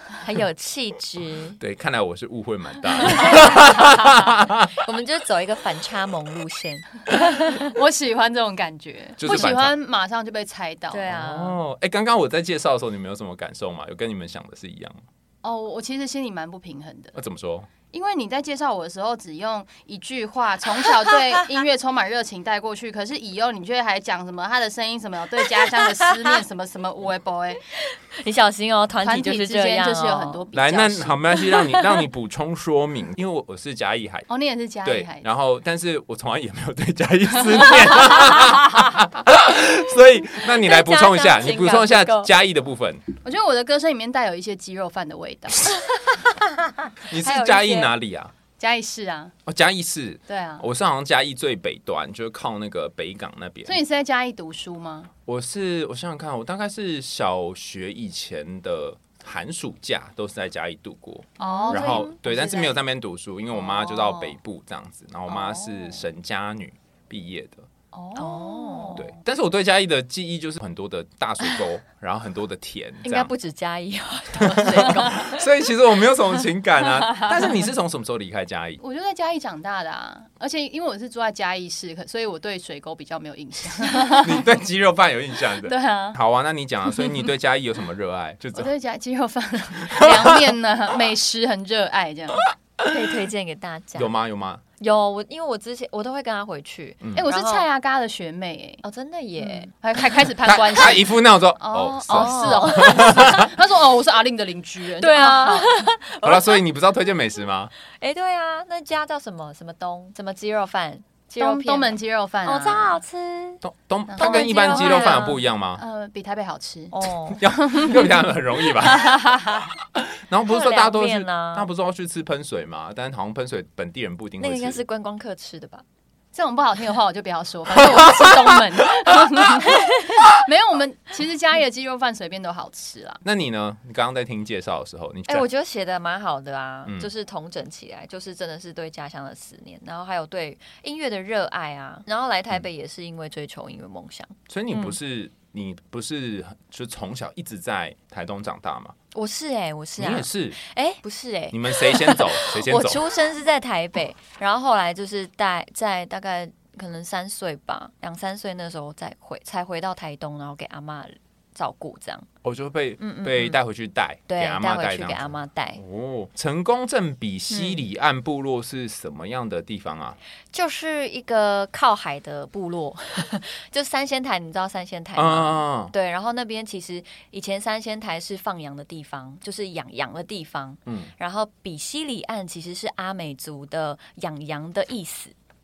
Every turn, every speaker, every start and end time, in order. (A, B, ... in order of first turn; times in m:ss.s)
0:00.2-0:01.6 A
0:01.6-0:04.7 B
0:03.2-0:03.9 A
0:04.8-0:07.7 A
0:07.2-0:11.1 C
0:09.2-0:09.7 B
0:10.9-0:11.6 A
0:11.1-0:15.0 B
0:15.4-0:17.2 C
0:17.2-0:17.7 B
0:17.9-0:27.6 C
0:25.8-0:26.4 A
0:27.7-0:30.4 A
0:29.0-0:31.2 C
0:30.5-0:34.3 B
0:31.4-0:31.9 A
0:34.3-0:35.3 C
0:34.8-0:43.0 B
0:40.3-0:42.3 A
0:43.2-0:45.8 C
0:47.0-0:48.3 B
0:47.2-0:47.9 A
0:48.6-0:49.4 C
0:49.5-0:53.8 B
0:50.3-0:50.7 C
0:53.7-0:55.1 C
0:55.3-1:07.7 B
1:01.4-1:02.8 C
1:01.4-1:02.2 A
1:03.7-1:04.2 C
1:05.3-1:06.1 C
1:07.9-1:09.1 C
1:08.2-1:09.1 A
1:09.0-1:13.3 B
1:13.0-1:15.5 A
1:14.4-1:18.8 B
1:14.6-1:15.3 C
1:18.8-1:24.5 C
1:24.2-1:28.7 B
1:25.5-1:26.2 C
1:28.5-1:32.5 C
1:30.0-1:30.3 B
1:32.8-1:34.1 A
1:34.0-1:34.6 B
1:34.8-1:37.7 A
1:37.1-1:38.8 C
1:38.8-1:39.7 A
1:39.4-1:45.7 C
1:40.4-1:43.5 B
1:41.8-1:43.4 A
1:45.0-1:46.6 A
1:46.2-1:47.7 B
1:48.0-1:53.6 A
1:51.4-1:53.0 C
1:53.6-1:55.8 B
1:54.1-1:55.2 C
1:54.2-1:55.4 A
1:55.8-1:57.0 C
1:56.9-1:57.4 A
1:57.4-1:59.2 B
1:57.5-1:58.2 C
1:58.8-1:59.4 C
2:00.3-2:04.8 B
2:00.5-2:01.7 A
2:04.4-2:05.8 A
2:06.3-2:13.2 C
2:13.2-2:15.5 B
2:15.3-2:25.0 A
2:16.8-2:17.1 B
2:24.5-2:29.0 B
2:29.1-2:42.3 A
2:30.0-2:30.6 B
2:31.5-2:33.0 B
2:42.4-2:50.2 B
2:43.0-2:43.6 A
2:44.3-2:45.8 A
2:47.5-2:47.8 A
2:50.5-3:05.3 A
2:55.2-2:55.9 B
3:00.9-3:01.1 B